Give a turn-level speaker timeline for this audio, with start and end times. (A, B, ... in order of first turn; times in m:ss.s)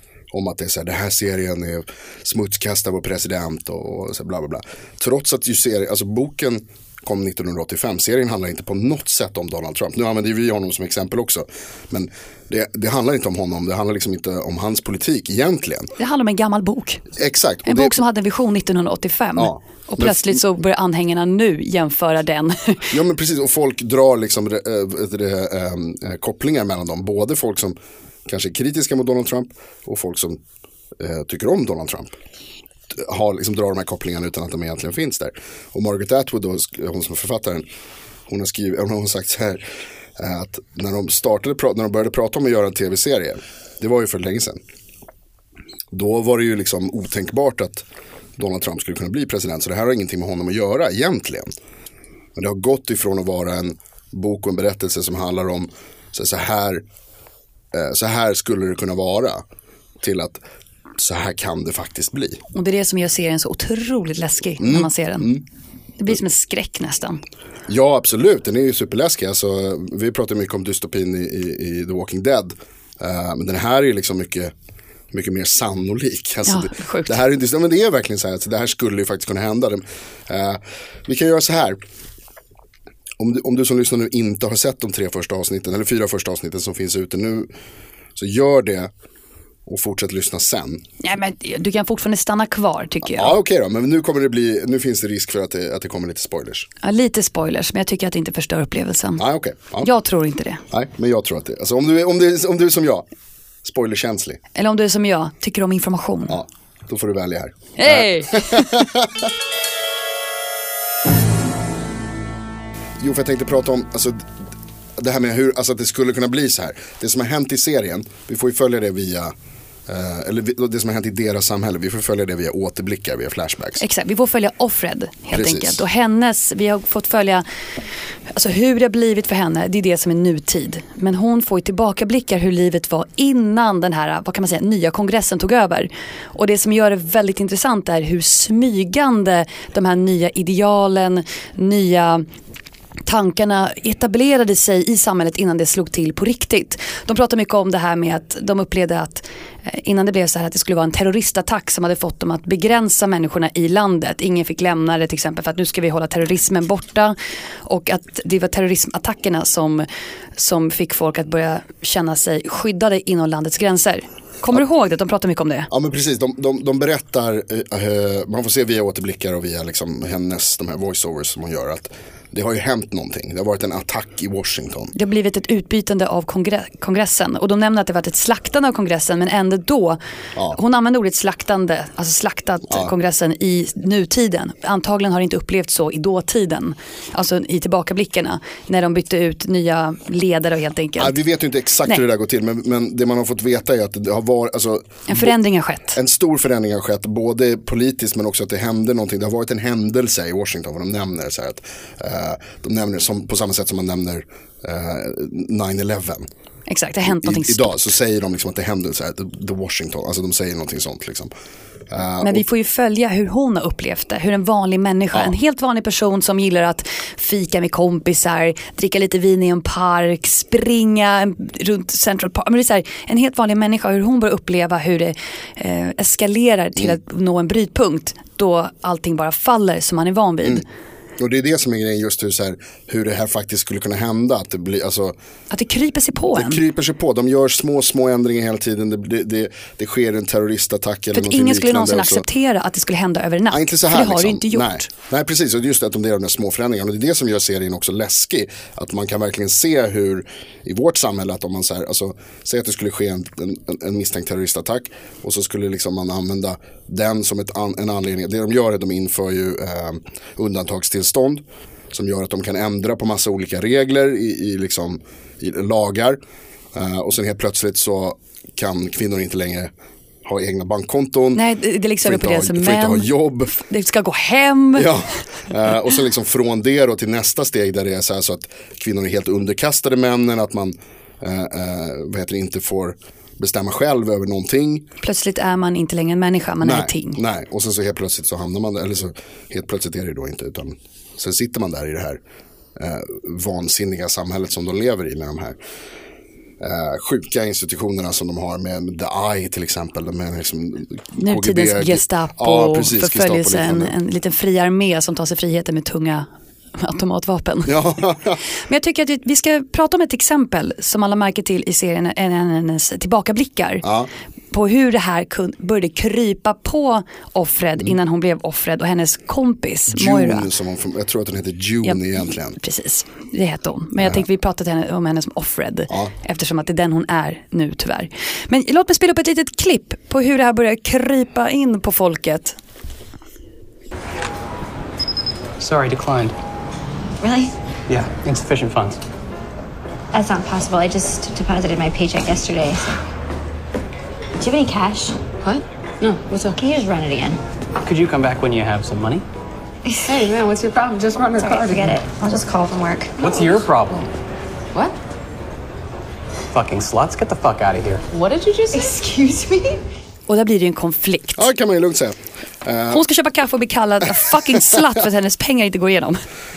0:00.3-0:15.9 A
0:16.0-0:17.0 B
0:17.2-0:18.0 A
0:17.6-0:22.9 B
0:19.4-0:20.4 A
0:22.9-0:30.4 A
0:31.0-0:32.1 A
0:32.9-0:37.6 A
0:38.3-0:39.6 A
0:40.2-0:44.6 A
0:45.9-0:47.8 A
0:48.4-0:51.5 A
0:52.4-0:56.8 A
0:57.7-0:59.4 A
1:00.0-1:00.4 A
1:01.0-1:02.4 A
1:02.5-1:05.3 B
1:04.6-1:05.4 A
1:06.0-1:07.2 B
1:07.7-1:14.5 A
1:15.1-1:21.8 A
1:16.4-1:17.2 B
1:23.2-1:27.5 A
1:28.2-1:28.9 A
1:29.6-1:30.8 A
1:31.0-1:33.3 B
1:33.0-1:36.7 A
1:36.8-1:39.2 B
1:39.2-1:39.9 A
1:39.8-1:40.6 B
1:40.7-1:43.0 A
1:43.6-1:44.4 A
1:44.5-1:46.4 B
1:46.3-1:49.3 A
1:47.8-1:48.9 B
1:53.0-1:54.3 A
1:55.0-1:59.3 A
1:59.9-2:03.8 A
2:03.8-2:07.4 B
2:05.3-2:05.8 A
2:08.3-2:22.2 B
2:23.0-2:39.8 B
2:40.4-2:45.7 B
2:45.7-2:54.9 A
2:54.9-3:00.0 B
3:00.5-3:11.2 B
3:11.0-3:15.3 A
3:15.1-3:16.0 B
3:15.9-3:26.3 A
3:26.7-3:27.9 B
3:27.0-3:31.3 A
3:31.9-3:32.4 A
3:32.2-3:50.6 B
3:51.2-3:55.2 A
3:55.5-3:56.6 B
3:56.3-4:02.2 A
4:01.1-4:04.9 B
4:03.5-4:26.2 A
4:26.7-4:29.7 A
4:30.2-4:31.4 A
4:31.3-4:34.9 B
4:32.0-4:33.6 A
4:34.7-4:44.9 A
4:45.0-4:47.2 B
4:46.6-4:52.2 A
4:52.8-4:55.6 A
4:56.6-5:03.9 A
5:01.2-5:07.8 B
5:07.6-5:08.4 A
5:08.6-5:13.8 B
5:13.8-5:14.1 A
5:14.5-5:20.5 B
5:19.9-5:22.6 A
5:21.8-5:32.6 B
5:35.6-5:36.3 C
5:37.2-5:37.5 D
5:37.9-5:39.0 C
5:40.1-5:43.0 D
5:44.4-5:45.2 D
5:45.4-5:46.5 E
5:46.4-5:47.4 D
5:47.8-5:49.2 C
5:49.9-5:50.2 D
5:50.1-5:52.0 E
5:51.3-5:53.2 D
5:53.2-5:54.1 C
5:56.5-5:58.0 C
5:58.1-5:58.9 E
5:58.7-5:59.8 D
6:00.3-6:01.5 B
6:01.4-6:03.1 A
6:02.9-6:06.2 B